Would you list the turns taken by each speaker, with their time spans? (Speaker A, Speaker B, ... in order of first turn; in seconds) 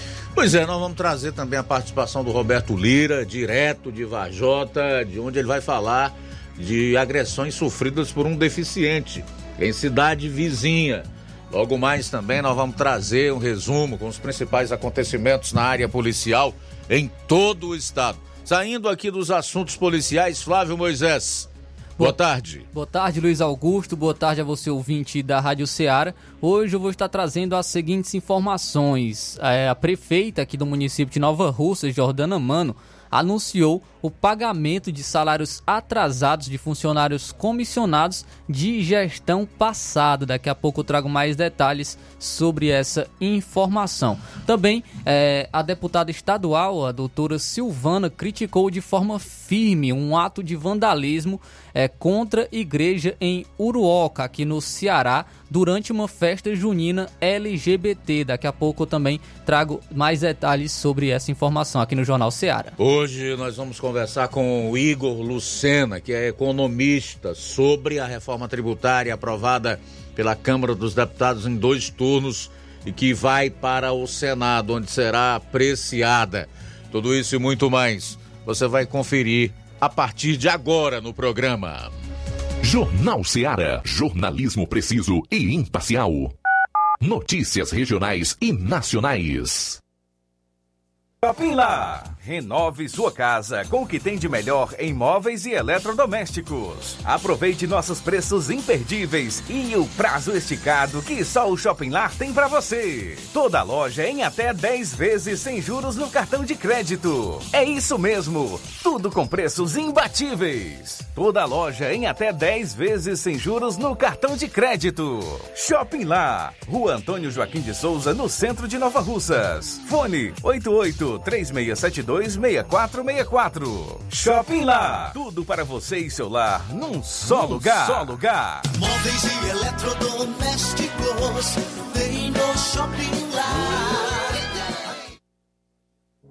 Speaker A: 0.4-22.6, 62.8-81.9
Speaker B: 22.7-62.7
Speaker C: 82.6-86.3, 87.0-89.8
Speaker D: 91.2-128.7
Speaker E: 130.2-131.3, 132.2-133.0